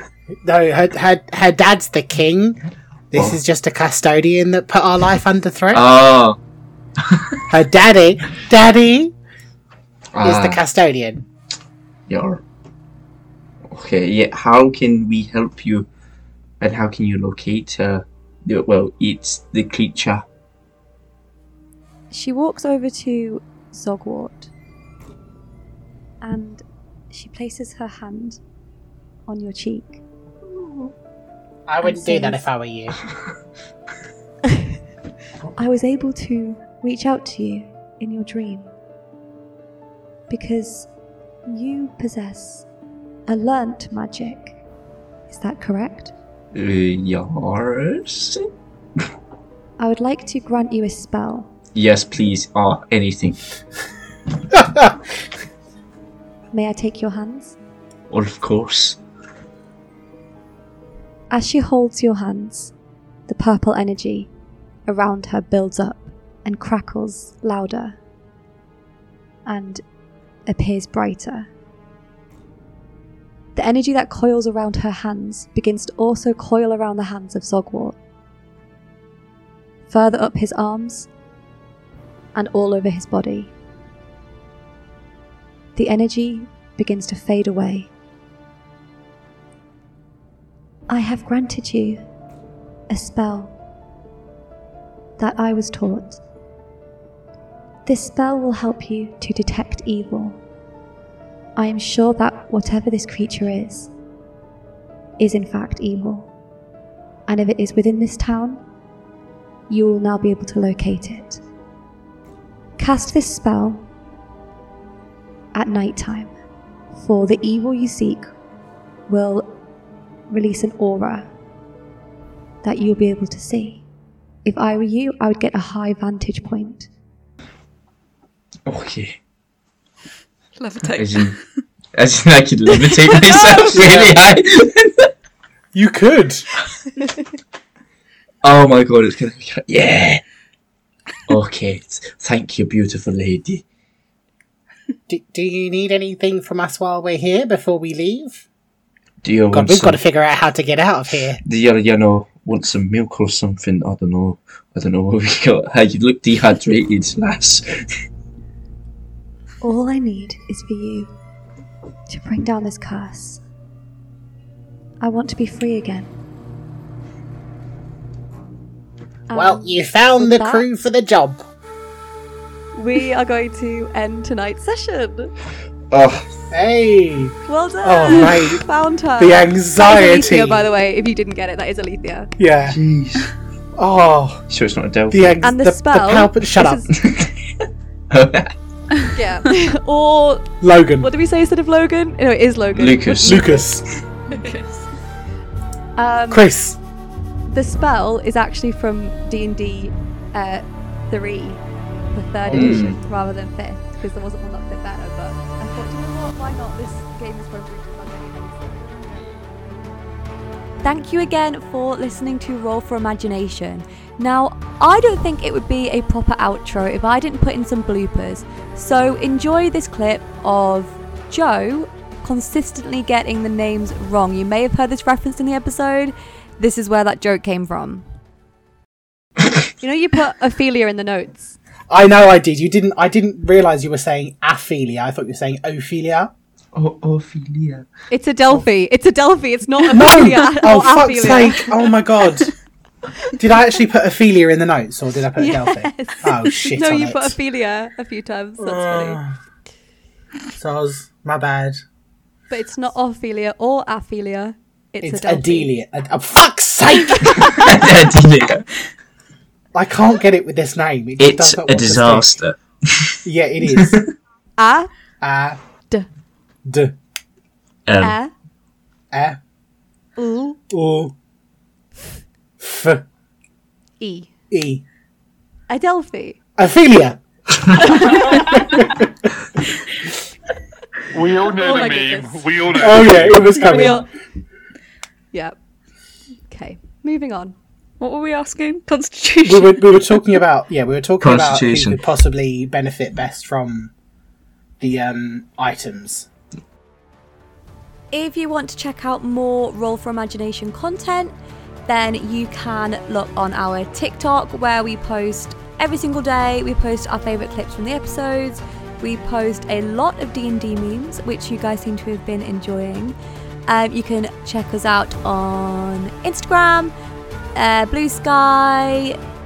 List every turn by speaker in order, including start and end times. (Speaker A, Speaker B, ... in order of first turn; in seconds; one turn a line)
Speaker A: 0.4-2.6
Speaker A: 3.1-5.8
Speaker B: 3.1-3.4
Speaker B: 5.7-6.4
Speaker B: 7.0-7.4
Speaker A: 7.5-9.1
Speaker B: 10.1-10.6
Speaker A: 10.2-11.2
Speaker B: 12.1-12.4
Speaker B: 13.7-15.9
Speaker B: 16.6-20.2
Speaker C: 22.1-24.5
Speaker C: 26.2-28.4
Speaker C: 29.3-30.0
Speaker A: 31.7-33.0
Speaker C: 31.8-32.5
Speaker C: 35.5-38.7
Speaker C: 40.3-40.9
Speaker C: 41.5-42.7
Speaker C: 43.3-44.6
Speaker C: 45.3-46.1
Speaker B: 46.5-48.5
Speaker C: 49.8-51.5
Speaker B: 51.7-53.4
Speaker C: 56.5-57.6
Speaker B: 58.1-59.0
Speaker C: 61.3-62.7
Speaker C: 63.3-64.3
Speaker C: 64.9-68.0
Speaker C: 69.5-69.8
Speaker C: 70.5-71.5
Speaker C: 73.5-78.0
Speaker C: 79.9-81.1
Speaker C: 82.3-83.5
Speaker C: 85.8-87.9
Speaker C: 90.9-92.0
Speaker C: 92.9-93.5
Speaker C: 95.2-96.2
Speaker C: 97.9-100.4
Speaker C: 101.6-103.9
Speaker C: 105.2-106.3
Speaker C: 107.3-108.6
Speaker C: 109.7-111.4
Speaker C: 112.8-113.9
Speaker C: 115.5-116.3
Speaker C: 116.9-118.3
Speaker C: 119.1-119.6
Speaker C: 120.3-121.3
Speaker C: 122.6-123.8
Speaker C: 124.5-126.9
Speaker B: 128.7-129.2
Speaker D: 130.6-131.4
Speaker B: 130.9-131.4
Speaker B: 131.9-135.1
Speaker C: 132.7-133.6
Speaker A: 133.7-134.1
Speaker A: 135.7-136.5
Speaker B: 138.4-140.2
Speaker B: 141.3-143.6
Speaker A: 145.1-148.4
Speaker B: 149.2-150.0
Speaker A: 149.5-151.4
Speaker B: 151.4-157.9
Speaker C: 159.6-161.1
Speaker C: 162.1-163.4
Speaker C: 165.0-166.1
Speaker C: 169.3-170.7
Speaker A: 169.3-171.4
Speaker C: 172.7-175.3
Speaker B: 175.9-176.4
Speaker A: 176.5-178.7
Speaker C: 177.5-182.3
Speaker A: 179.2-180.7
Speaker A: 182.4-182.8
Speaker B: 182.7-183.3
Speaker A: 183.8-184.4
Speaker B: 184.5-185.5
Speaker A: 185.1-186.9
Speaker C: 185.4-186.9
Speaker B: 186.9-188.5
Speaker C: 189.1-193.7
Speaker A: 190.6-191.1
Speaker B: 192.7-193.7
Speaker A: 193.2-193.8
Speaker D: 194.3-194.9
Speaker C: 196.0-196.5
Speaker A: 196.3-196.8
Speaker C: 197.5-201.6
Speaker C: 202.1-209.0
Speaker A: 202.5-202.8
Speaker B: 202.5-203.0
Speaker C: 210.8-228.1
Speaker C: 229.8-231.6
Speaker A: 231.9-236.3
Speaker B: 236.7-237.9
Speaker C: 238.1-241.8
Speaker A: 239.9-242.5
Speaker A: 243.4-247.4
Speaker C: 245.4-249.2
Speaker A: 248.6-249.3
Speaker A: 250.6-251.8
Speaker C: 252.5-255.7
Speaker A: 255.0-257.7
Speaker C: 257.2-257.7
Speaker B: 257.4-258.7
Speaker A: 259.7-262.3
Speaker B: 261.2-264.1
Speaker A: 263.2-264.1
Speaker C: 264.6-264.9
Speaker A: 265.2-265.6
Speaker A: 266.7-266.9
Speaker B: 267.9-268.2
Speaker C: 268.0-268.3
Speaker A: 269.1-269.4
Speaker C: 270.2-270.6
Speaker A: 270.7-271.1
Speaker A: 272.6-273.0
Speaker C: 274.0-274.3
Speaker A: 274.5-274.8
Speaker C: 275.7-276.4
Speaker A: 276.6-279.1
Speaker C: 277.9-278.5
Speaker E: 281.1-283.6
Speaker C: 281.4-282.5
Speaker A: 282.8-284.1
Speaker C: 283.5-284.1
Speaker C: 286.5-287.6
Speaker D: 288.0-290.4
Speaker A: 289.4-293.9
Speaker B: 291.2-292.1
Speaker A: 294.8-296.3
Speaker C: 298.1-301.3
Speaker C: 301.9-313.2
Speaker C: 313.7-316.9
Speaker C: 317.6-319.2